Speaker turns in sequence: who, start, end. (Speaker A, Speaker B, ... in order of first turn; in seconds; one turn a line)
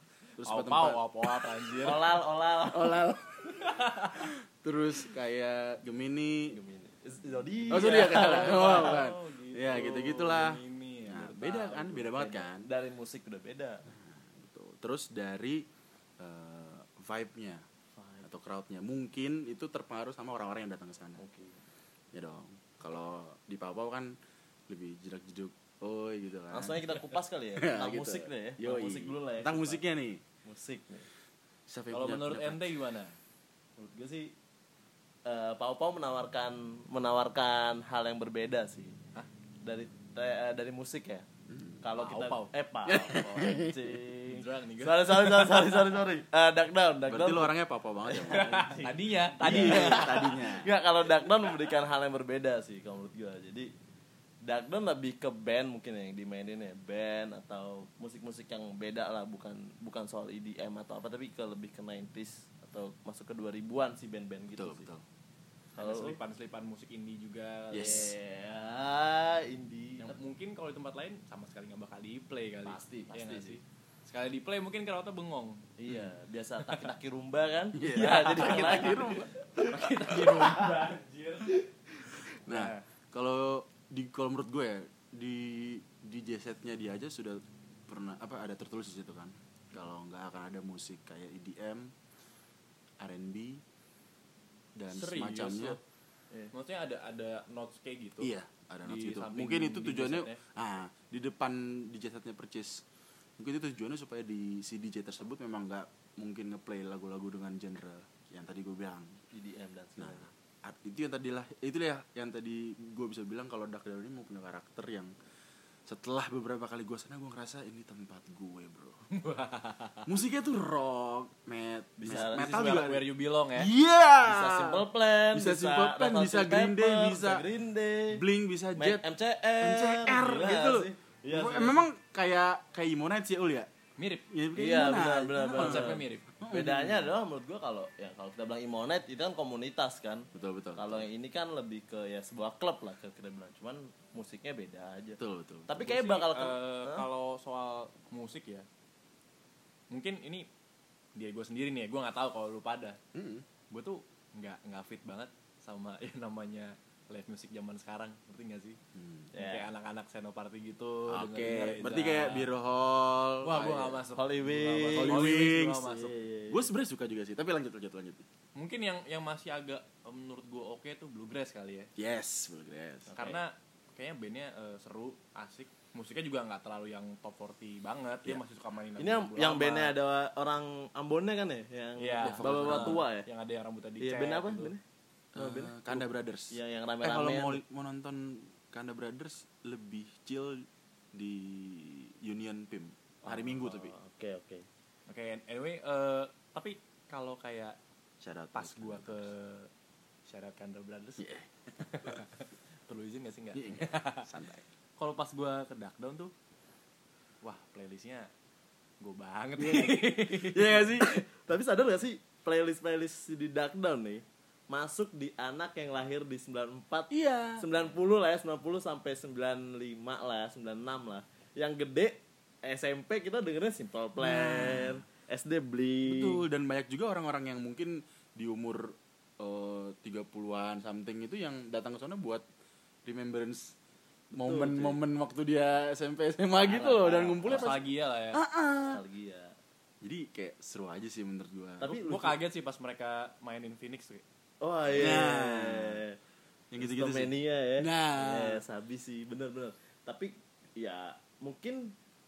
Speaker A: 0.4-1.5
Speaker B: 0.4-2.2
Speaker C: 1.8-3.0
Speaker A: 2.7-6.6
Speaker B: 3.6-4.3
Speaker C: 6.5-9.0
Speaker A: 7.7-12.7
Speaker B: 7.9-12.3
Speaker C: 12.2-13.8
Speaker A: 13.9-15.6
Speaker A: 16.2-17.6
Speaker C: 17.9-18.3
Speaker A: 18.2-21.2
Speaker C: 21.2-21.6
Speaker A: 22.1-24.1
Speaker A: 24.7-27.0
Speaker C: 26.5-29.8
Speaker A: 27.5-30.2
Speaker C: 30.4-31.1
Speaker A: 31.7-32.8
Speaker B: 31.9-33.1
Speaker C: 33.8-34.3
Speaker C: 35.2-39.0
Speaker C: 39.6-41.3
Speaker A: 41.5-41.8
Speaker C: 41.8-47.5
Speaker B: 42.0-42.5
Speaker A: 42.9-44.0
Speaker B: 44.3-45.8
Speaker A: 47.1-48.6
Speaker C: 48.0-53.7
Speaker B: 48.2-50.3
Speaker A: 49.4-50.7
Speaker C: 54.4-64.9
Speaker A: 64.5-65.0
Speaker B: 65.7-68.1
Speaker C: 65.8-66.2
Speaker A: 67.7-68.1
Speaker C: 67.7-70.2
Speaker B: 70.0-75.7
Speaker C: 72.6-73.6
Speaker C: 75.8-80.9
Speaker B: 76.6-76.9
Speaker A: 77.7-79.3
Speaker B: 77.9-81.5
Speaker A: 80.1-80.7
Speaker C: 81.5-82.8
Speaker A: 82.3-91.9
Speaker A: 93.0-93.6
Speaker A: 94.8-95.8
Speaker B: 94.9-95.8
Speaker B: 96.5-100.4
Speaker A: 98.2-102.8
Speaker A: 103.4-109.2
Speaker C: 109.3-110.3
Speaker A: 110.0-115.1
Speaker A: 115.9-119.0
Speaker B: 119.1-120.1
Speaker A: 120.1-123.0
Speaker C: 122.0-122.5
Speaker B: 122.1-123.7
Speaker A: 123.5-127.4
Speaker C: 124.2-128.2
Speaker A: 128.1-129.0
Speaker C: 128.8-131.8
Speaker A: 129.6-133.7
Speaker B: 134.0-134.2
Speaker A: 134.3-137.1
Speaker C: 134.6-147.1
Speaker B: 135.5-136.2
Speaker A: 140.3-141.1
Speaker A: 145.2-145.9
Speaker B: 145.8-148.7
Speaker B: 149.9-150.4
Speaker B: 151.1-153.0
Speaker A: 153.1-153.4
Speaker B: 153.7-158.8
Speaker A: 158.9-159.3
Speaker C: 159.3-159.7
Speaker B: 159.4-162.5
Speaker A: 161.1-164.0
Speaker B: 163.4-166.1
Speaker C: 164.1-165.3
Speaker A: 164.9-168.2
Speaker C: 165.9-166.7
Speaker B: 168.5-171.9
Speaker A: 172.0-173.1
Speaker C: 173.1-173.4
Speaker B: 173.2-179.9
Speaker C: 179.0-183.3
Speaker B: 182.0-184.7
Speaker A: 182.2-183.0
Speaker C: 184.0-184.8
Speaker C: 185.3-187.6
Speaker A: 185.3-193.9
Speaker C: 193.2-194.7
Speaker B: 195.1-197.8
Speaker A: 198.2-199.3
Speaker B: 198.5-199.7
Speaker B: 200.3-201.2
Speaker A: 201.2-202.2
Speaker B: 201.8-204.3
Speaker A: 203.5-204.6
Speaker B: 205.0-206.3
Speaker B: 207.4-208.3
Speaker B: 209.0-210.9
Speaker A: 209.6-211.2
Speaker C: 211.1-226.4
Speaker A: 217.1-217.6
Speaker A: 224.2-225.0
Speaker A: 226.1-232.4
Speaker A: 233.0-233.8
Speaker C: 234.3-235.0
Speaker A: 234.3-237.8
Speaker C: 236.6-237.8
Speaker B: 237.5-238.4
Speaker A: 238.3-239.0
Speaker C: 238.9-239.5
Speaker A: 240.0-242.0
Speaker C: 241.8-242.4
Speaker B: 241.9-244.2
Speaker C: 244.6-246.2
Speaker A: 244.9-246.0
Speaker A: 246.7-248.6
Speaker C: 246.8-251.9